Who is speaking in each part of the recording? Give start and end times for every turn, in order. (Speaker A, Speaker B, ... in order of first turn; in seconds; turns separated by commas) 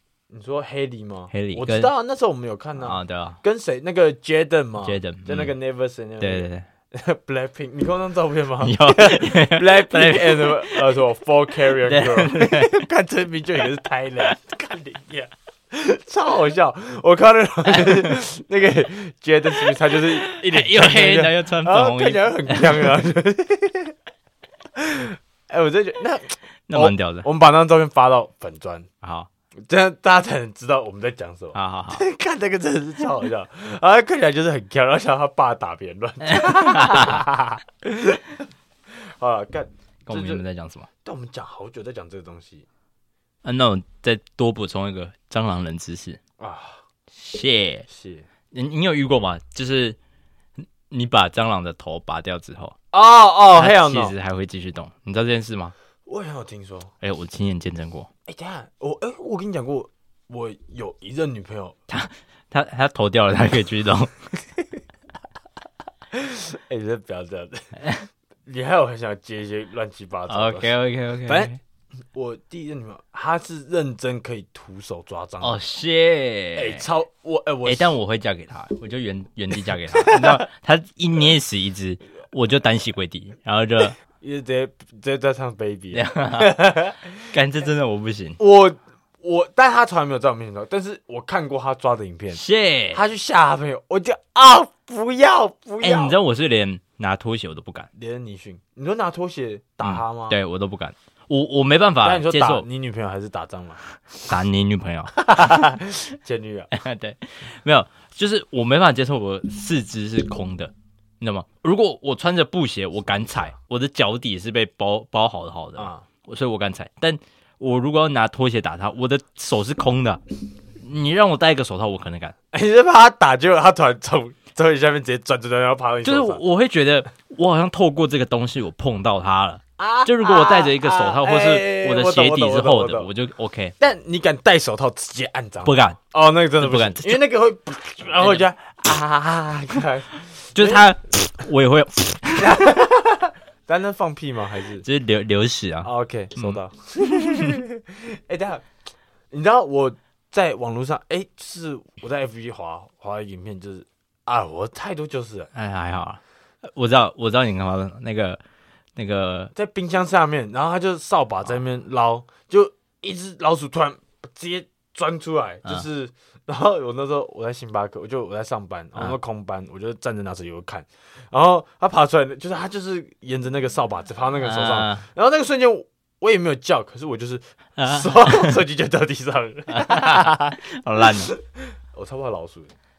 Speaker A: 0.3-23.9, Speaker B: 1.3-1.9, Speaker B: 2.8-3.4, Speaker B: 4.8-5.5, Speaker B: 6.2-6.7, Speaker B: 8.6-11.0, Speaker B: 11.8-12.8, Speaker B: 17.7-18.1, Speaker B: 19.9-22.9, Speaker A: 24.8-28.9, Speaker B: 26.7-27.3, Speaker B: 29.0-29.3, Speaker A: 29.6-38.4, Speaker B: 31.5-32.0, Speaker B: 36.2-37.3, Speaker A: 38.9-40.4, Speaker B: 40.1-40.9, Speaker A: 41.0-42.7, Speaker B: 43.4-46.2, Speaker A: 46.4-46.8, Speaker B: 47.1-47.9, Speaker A: 47.9-48.3, Speaker B: 48.5-50.0, Speaker B: 50.6-52.8, Speaker A: 52.9-54.1, Speaker B: 53.5-55.7, Speaker A: 56.1-56.9, Speaker B: 57.0-58.1, Speaker A: 58.3-61.8, Speaker B: 61.9-64.2, Speaker A: 66.1-67.8, Speaker B: 67.8-68.1, Speaker A: 68.5-70.8, Speaker B: 70.3-71.6, Speaker A: 71.3-71.5, Speaker A: 72.1-75.6, Speaker B: 75.4-76.8, Speaker A: 76.5-78.0, Speaker B: 77.6-84.0, Speaker A: 80.0-80.4, Speaker A: 84.1-87.1, Speaker B: 85.9-86.6, Speaker B: 87.3-88.4, Speaker A: 88.4-92.4, Speaker B: 92.3-93.0, Speaker A: 92.9-96.2, Speaker B: 95.8-97.9, Speaker A: 98.0-100.4, Speaker B: 99.8-102.7, Speaker A: 102.0-103.8, Speaker B: 104.3-105.7, Speaker A: 105.2-106.7, Speaker B: 106.7-120.2, Speaker A: 115.8-116.1, Speaker B: 120.8-122.3, Speaker A: 122.5-126.4, Speaker B: 126.0-133.8, Speaker A: 129.8-133.1, Speaker A: 133.8-140.8, Speaker B: 135.6-136.0, Speaker B: 136.6-137.2, Speaker B: 138.2-138.4, Speaker B: 140.6-142.7, Speaker A: 142.4-144.8, Speaker B: 144.8-147.5, Speaker A: 145.8-148.7, Speaker A: 149.3-155.5, Speaker B: 155.5-158.4, Speaker B: 159.0-159.5, Speaker A: 159.5-180.5, Speaker B: 174.4-175.1, Speaker B: 177.8-178.6, Speaker B: 179.7-181.3, Speaker A: 181.9-182.7